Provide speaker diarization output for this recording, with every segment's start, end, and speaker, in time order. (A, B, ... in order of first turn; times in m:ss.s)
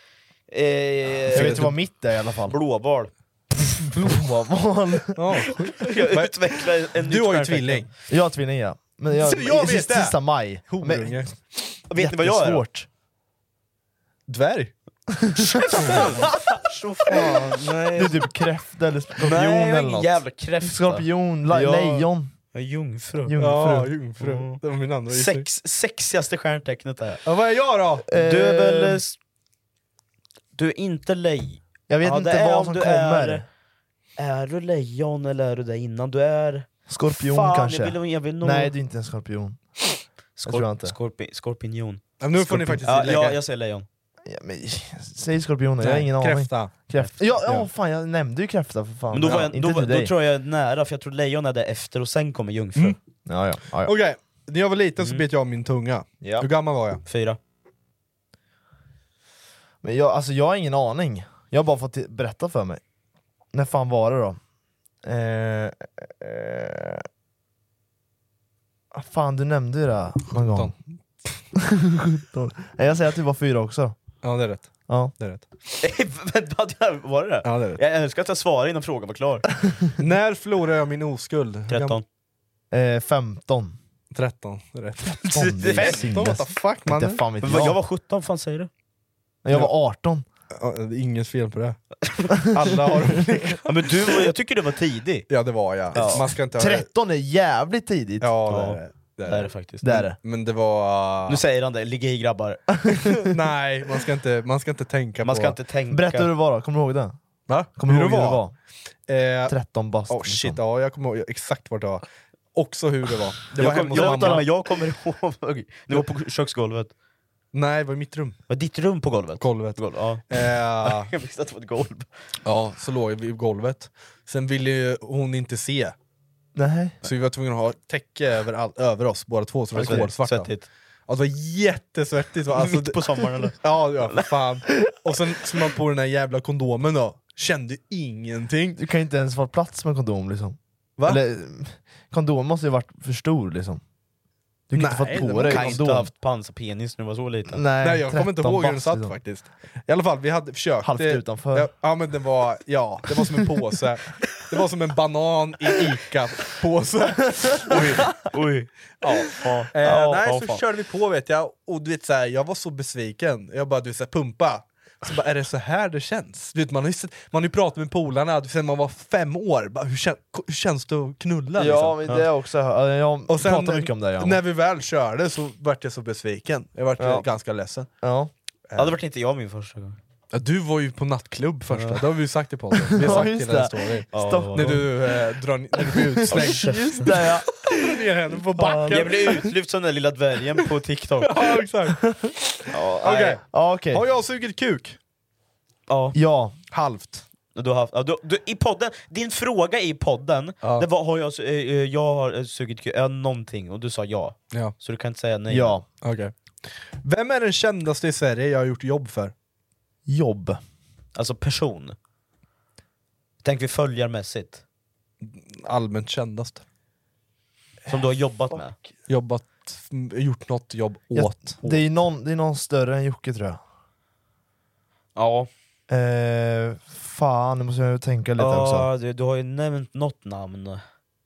0:00.5-0:01.8 A
0:01.3-0:02.6 B
0:01.3-0:01.7 C
0:02.5-0:03.1 A
0:04.0-0:05.4 B
0:05.1-0:06.4 C
0:05.6-0:07.9 A
0:07.0-0:07.9 C
0:08.1-0:11.3 B
0:09.1-0:11.3 C
0:11.9-0:12.6 A
0:11.9-0:12.9 B
0:14.3-0:14.7 C
0:15.2-0:16.0 B
0:15.6-0:16.3 C
0:15.7-0:17.8 A
0:17.0-0:18.2 C
0:17.9-0:20.0 B
0:19.2-0:23.4 A
0:19.3-0:20.0 C
0:20.6-0:22.3 B
0:23.2-0:23.9 B
0:23.4-0:25.4 C
0:24.2-0:27.2 A
0:27.2-0:28.0 C
0:28.1-0:29.0 B
0:28.1-0:29.2 A
0:30.6-0:33.4 A
0:31.9-0:33.4 B
0:34.2-0:38.7 A
0:36.9-0:39.6 B
0:40.4-0:43.8 A
0:40.4-0:40.9 B
0:42.2-0:43.4 C
0:44.2-0:50.1 B
0:45.8-0:46.7 C
0:47.4-0:47.7 C
0:49.1-0:53.0 A
0:49.2-0:49.5 C
0:53.2-0:53.9 B
0:53.8-0:57.0 C
0:55.0-0:55.2 A
0:56.2-0:56.5 B
0:57.1-0:57.4 A
0:59.8-1:02.8 B
1:03.5-1:04.4 B
1:05.0-1:07.0 B
1:08.9-1:10.7 B
1:10.4-1:10.7 C
1:11.6-1:14.0 B
1:14.2-1:15.5 C
1:14.9-1:15.1 B
1:15.8-1:19.5 A
1:17.4-1:17.8 C
1:20.0-1:22.0 C
1:21.7-1:22.0 A
1:22.7-1:23.8 B
1:24.1-1:27.7 C
1:25.1-1:27.8 B
1:25.3-1:26.1 A
1:27.4-1:28.7 A
1:29.4-1:30.2 B
1:30.6-1:31.8 C
1:32.3-1:33.7 C
1:33.6-1:35.3 A
1:35.3-1:36.8 C
1:35.9-1:36.2 A
1:35.9-1:38.4 B
1:38.2-1:41.4 C
1:38.5-1:40.0 A
1:39.8-1:40.2 B
1:41.3-1:42.9 A
1:43.2-1:45.6 C
1:45.2-1:46.3 A
1:45.9-1:47.2 B
1:47.5-1:48.4 C
1:47.7-1:48.5 B
1:49.1-1:49.6 C
1:49.5-1:50.6 B
1:50.1-1:54.4 C
1:53.5-1:56.9 A
1:53.6-1:54.4 B
1:57.5-1:58.4 C
1:58.5-2:02.1 A
1:59.4-1:59.8 C
2:00.3-2:01.1 C
2:02.4-2:05.9 C
2:06.5-2:07.0 B
2:07.0-2:10.5 C
2:09.7-2:10.1 B
2:09.7-2:10.6 A
2:11.1-2:13.0 C
2:12.5-2:14.3 A
2:13.6-2:18.8 C
2:18.8-2:23.8 B
2:24.7-2:26.1 B
2:24.7-2:25.9 C
2:25.4-2:27.6 A
2:27.5-2:29.2 B
2:27.8-2:38.3 C
2:30.8-2:31.7 B
2:38.1-2:40.6 A
2:39.7-2:52.0 C
2:51.6-2:54.4 B
2:53.3-2:57.9 C
2:57.0-2:57.3 B
2:58.0-2:58.3 B
2:58.7-2:58.9 C
2:58.8-3:00.0 A
3:00.3-3:09.5 C
3:01.7-3:02.0 A
3:02.9-3:04.9 B
3:03.0-3:03.3 A
3:04.1-3:04.8 A
3:05.8-3:07.7 B
3:06.3-3:07.2 A
3:08.5-3:09.5 B
3:08.9-3:11.6 A
3:11.2-3:15.0 C
3:12.7-3:13.4 A
3:13.1-3:14.0 B
3:15.9-3:16.2 A
3:16.1-3:16.6 B
3:16.7-3:17.2 C
3:17.5-3:25.8 A
3:25.5-3:25.8 B
3:26.0-3:26.3 C
3:26.9-3:29.3 C
3:30.0-3:30.6 B
3:31.2-3:32.0 A
3:33.4-3:34.6 A
3:35.2-3:36.6 C
3:37.9-3:38.8 A
3:39.1-3:41.8 C
3:41.1-3:43.6 B
3:45.2-3:45.5 A
3:45.9-3:48.9 B
3:48.4-3:50.8 A